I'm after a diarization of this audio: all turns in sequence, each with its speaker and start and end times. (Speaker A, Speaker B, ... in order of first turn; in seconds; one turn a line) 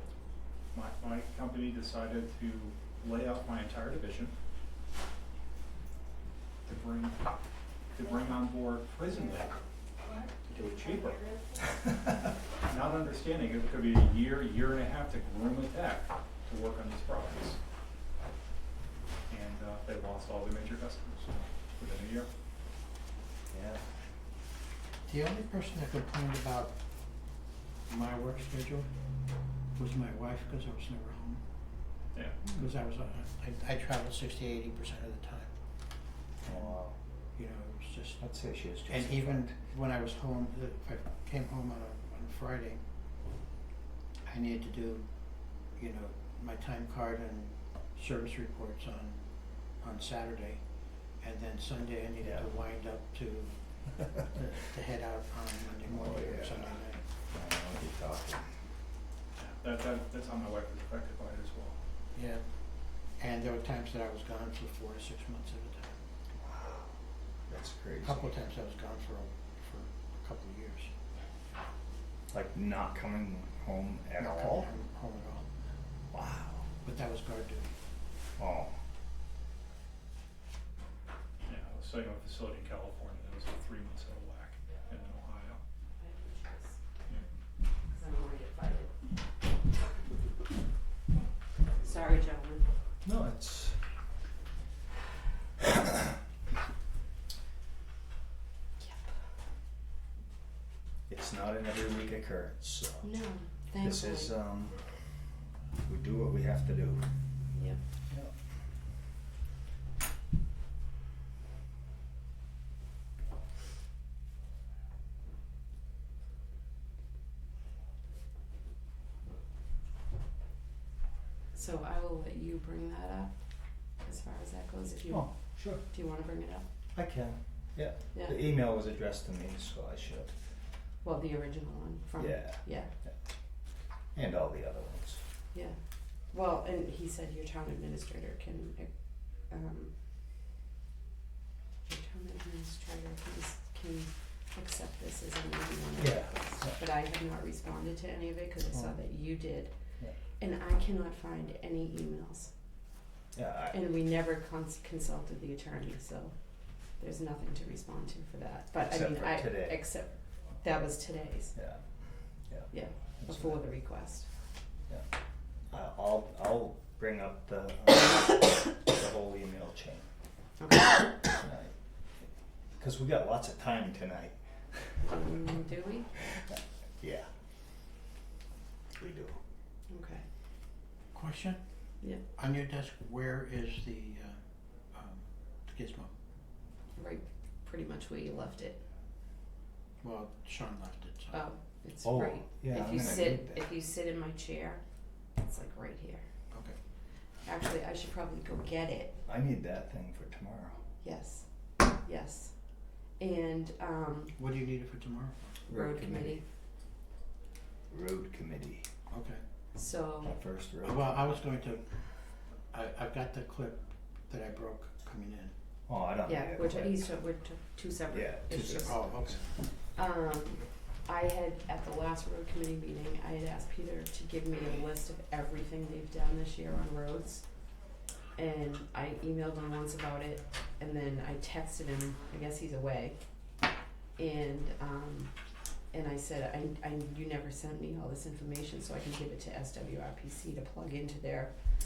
Speaker A: 0.7-4.3
Speaker A: 6.6-7.2
Speaker A: 7.9-9.6
Speaker A: 10.4-11.3
Speaker A: 12.6-17.6
Speaker A: 19.3-22.3
Speaker B: 23.5-23.8
Speaker C: 25.1-26.7
Speaker C: 27.9-28.9
Speaker C: 29.7-31.4
Speaker A: 32.1-32.4
Speaker C: 32.5-35.5
Speaker B: 36.4-36.9
Speaker C: 37.3-38.2
Speaker B: 38.2-39.6
Speaker C: 38.9-42.8
Speaker C: 44.3-45.1
Speaker C: 45.8-49.2
Speaker C: 49.8-50.6
Speaker C: 51.2-53.6
Speaker B: 52.2-52.5
Speaker C: 54.1-57.0
Speaker B: 55.9-58.5
Speaker A: 59.4-61.8
Speaker C: 62.1-62.4
Speaker C: 63.2-66.0
Speaker B: 66.4-66.9
Speaker B: 67.5-68.3
Speaker C: 68.0-70.9
Speaker B: 72.3-74.7
Speaker C: 74.2-75.5
Speaker B: 76.1-76.7
Speaker C: 76.8-77.7
Speaker B: 78.4-78.7
Speaker A: 81.5-85.6
Speaker D: 86.0-87.0
Speaker D: 87.8-88.9
Speaker D: 91.8-92.7
Speaker B: 93.0-93.8
Speaker D: 98.8-99.1
Speaker B: 101.1-103.0
Speaker D: 103.0-104.3
Speaker B: 103.8-104.8
Speaker B: 105.8-107.0
Speaker D: 107.5-107.8
Speaker D: 121.5-123.3
Speaker D: 124.0-126.6
Speaker B: 125.1-125.8
Speaker B: 126.9-130.3
Speaker D: 131.0-132.9
Speaker B: 132.2-133.1
Speaker B: 134.1-135.2
Speaker D: 136.3-139.9
Speaker D: 141.9-149.7
Speaker B: 146.0-146.8
Speaker D: 150.4-152.5
Speaker B: 153.3-153.8
Speaker D: 153.7-156.3
Speaker D: 157.0-161.6
Speaker B: 158.8-159.8
Speaker B: 161.5-161.8
Speaker B: 162.5-163.6
Speaker D: 162.7-164.3
Speaker B: 165.7-170.1
Speaker D: 170.6-171.2
Speaker B: 171.2-171.7
Speaker B: 172.8-175.1
Speaker D: 175.0-176.1
Speaker B: 177.0-177.3
Speaker B: 179.0-179.4
Speaker D: 179.9-180.2
Speaker C: 181.1-181.6
Speaker C: 182.3-184.4
Speaker C: 184.9-186.1
Speaker D: 186.9-188.8
Speaker C: 190.0-191.4
Speaker D: 191.3-194.8
Speaker B: 192.0-193.7
Speaker D: 195.4-196.2
Speaker C: 196.5-196.8
Speaker D: 197.4-199.2
Speaker B: 199.2-200.8
Speaker D: 201.0-202.5
Speaker D: 203.2-204.4
Speaker C: 204.3-205.5
Speaker D: 205.7-206.4
Speaker B: 205.7-206.4
Speaker B: 207.9-208.9
Speaker C: 209.1-209.4
Speaker D: 209.7-210.3
Speaker B: 210.2-211.4
Speaker C: 210.8-211.8
Speaker C: 212.7-215.5
Speaker B: 215.9-217.1
Speaker D: 216.2-219.0
Speaker B: 218.1-219.4
Speaker C: 218.7-219.5
Speaker D: 219.9-227.7
Speaker D: 228.3-233.2
Speaker D: 234.2-235.3
Speaker D: 235.9-241.5